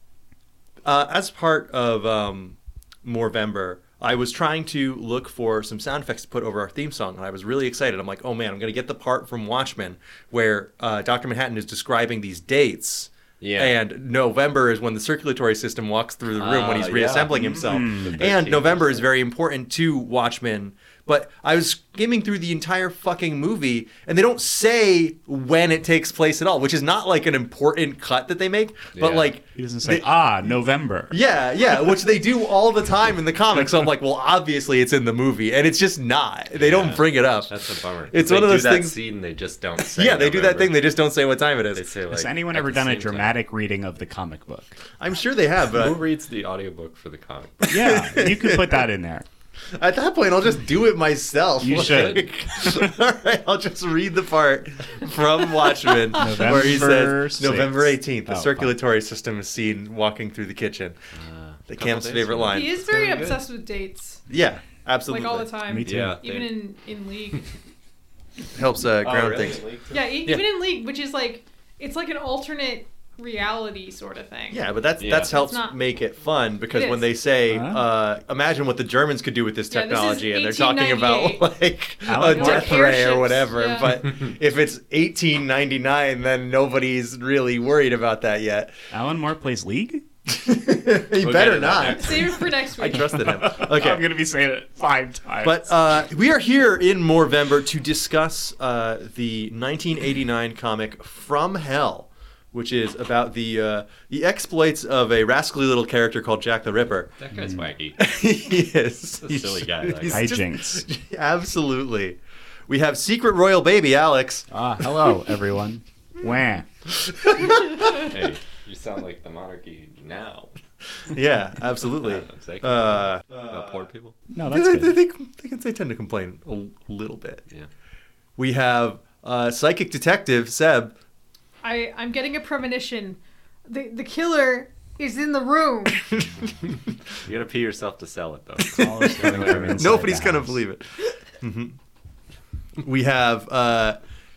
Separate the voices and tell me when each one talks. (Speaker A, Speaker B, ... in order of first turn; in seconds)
Speaker A: 0.8-30.2, 31.1-37.5, 38.1-39.0, 39.9-41.8, 45.0-46.0, 47.7-48.9, 49.8-61.0, 61.7-62.8, 64.3-65.5, 68.5-69.7, 74.5-88.7, 90.3-94.1, 95.4-107.1, 108.0-114.5, 117.3-117.8, 121.1-123.6, 124.4-127.4, 128.4-130.9, 138.7-141.8, 142.8-144.0
Speaker B: 13.4-13.8, 16.3-19.1, 28.9-29.4, 36.5-40.9, 41.7-43.4, 45.7-48.0, 51.6-52.2, 61.1-63.4, 65.8-66.5, 69.0-70.0, 75.0-75.3, 91.2-92.3, 107.2-108.0, 109.2-110.3, 117.8-120.5, 122.2-124.2, 137.2-140.0
Speaker C: 17.3-18.2, 29.6-31.2, 42.1-44.8, 47.7-49.2, 51.6-52.8, 56.2-58.7, 65.6-66.2, 77.5-77.8, 82.1-82.9, 88.9-90.0, 93.1-95.7, 107.3-107.7, 110.1-110.8, 114.5-116.7, 124.3-125.0, 138.8-140.6
Speaker D: 62.5-64.2, 65.0-67.4, 69.9-75.8, 76.7-77.1, 79.7-81.5, 82.2-84.0, 92.0-93.2, 131.6-136.1